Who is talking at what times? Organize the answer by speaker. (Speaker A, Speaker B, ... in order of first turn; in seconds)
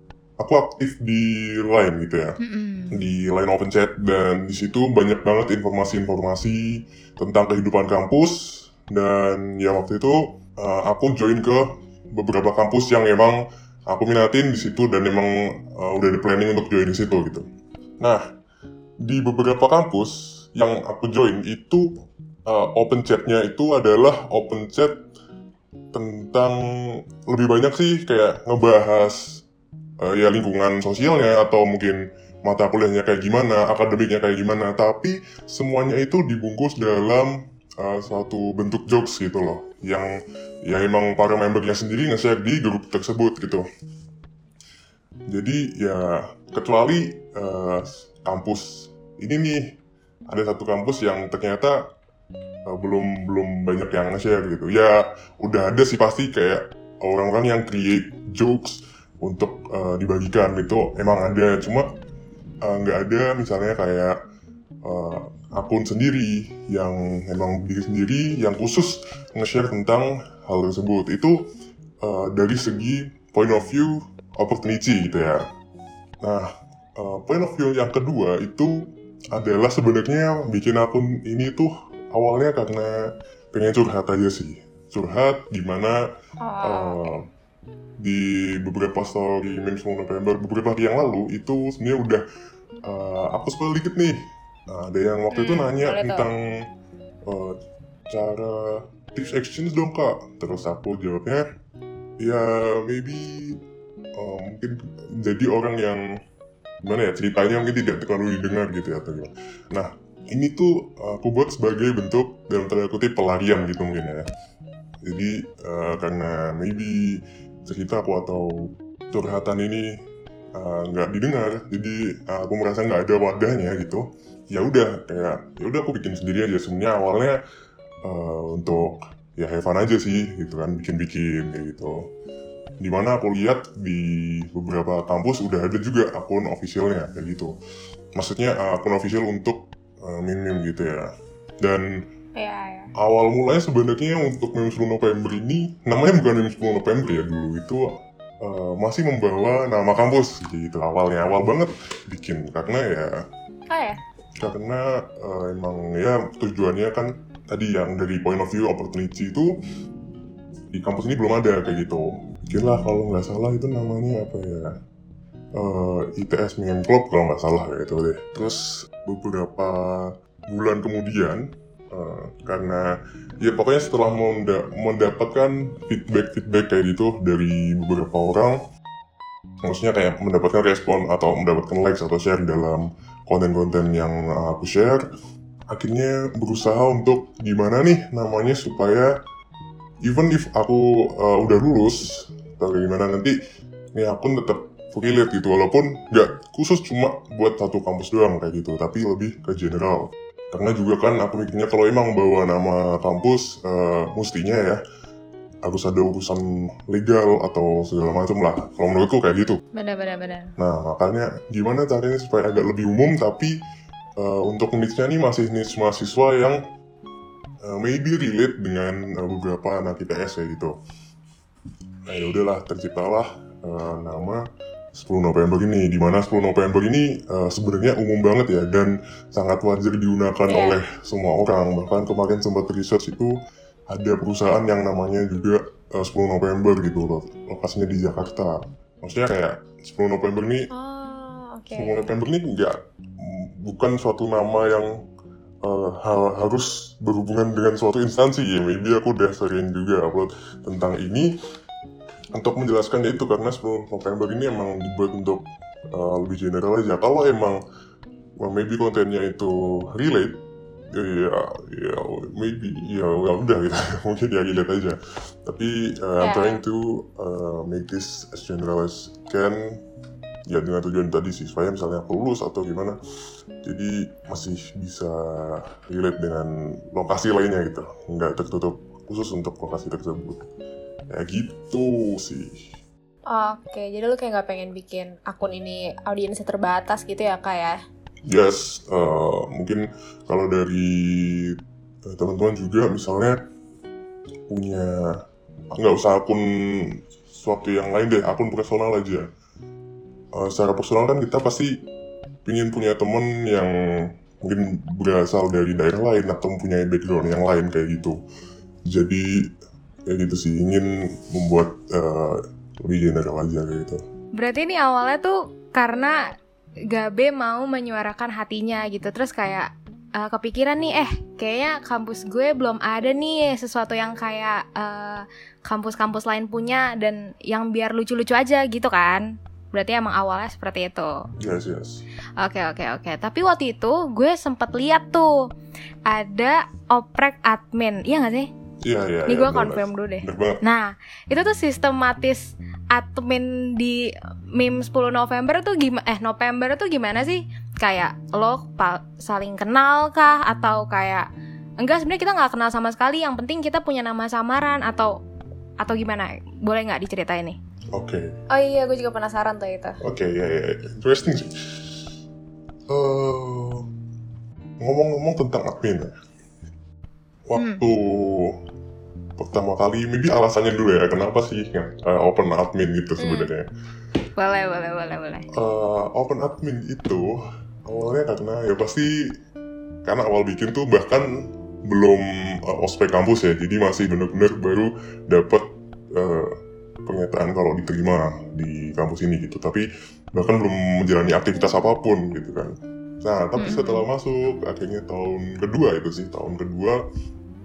Speaker A: 0.4-2.4, 2.9-17.4, 19.0-21.9, 22.5-25.0, 25.9-29.4, 30.0-40.1, 40.6-43.6, 45.3-49.7, 50.3-51.8, 52.7-61.9, 62.6-64.2, 64.8-71.5, 72.0-75.4, 76.2-78.8, 79.3-82.9, 83.5-86.0, 86.6-87.2, 88.0-92.2, 92.8-96.4, 97.2-97.6, 98.1-101.4, 102.2-103.6, 104.2-106.0, 106.8-114.2, 115.0-119.9, 120.5-127.4, 128.0-132.0, 132.8-137.5, 138.1-141.1, 141.6-142.0, 143.0-153.2, 154.4-159.5, 160.7-164.7, 165.5-178.6, 179.6-185.1, 185.7-189.1, 190.0-193.3, 193.9-204.8, 205.6-209.6, 210.6-213.5, 214.2-216.6, 217.6-220.8, 222.1-224.4, 224.9-233.4, 233.9-240.7, 241.8-244.9, 245.6-251.3, 252.3-257.6, 258.4-260.4, 260.9-269.8, 270.5-273.0, 273.6-280.5, 281.1-282.7, 288.3-293.4, 294.5-295.0, 295.7-299.3, 300.3-301.8, 302.4-308.2, 308.9-309.3, 310.1-314.0, 331.4-332.0, 338.8-340.6, 357.9-358.3, 360.0-362.0, 362.9-363.9, 364.8-366.1, 367.5-368.6, 369.4-373.7, 375.5-379.1, 380.0-386.5, 387.0-397.0
Speaker B: 2.4-3.0, 209.8-210.5, 314.3-316.3, 316.9-331.2, 332.4-335.4, 336.1-338.5, 339.3-351.3, 351.8-355.1, 355.8-357.6, 367.5-367.8, 373.2-373.5, 374.4-375.5, 393.6-394.0
Speaker C: 86.4-87.0, 95.3-96.3, 142.4-142.9, 153.7-154.0, 230.5-230.8, 240.7-242.0, 266.2-266.6, 283.3-287.8, 358.5-360.0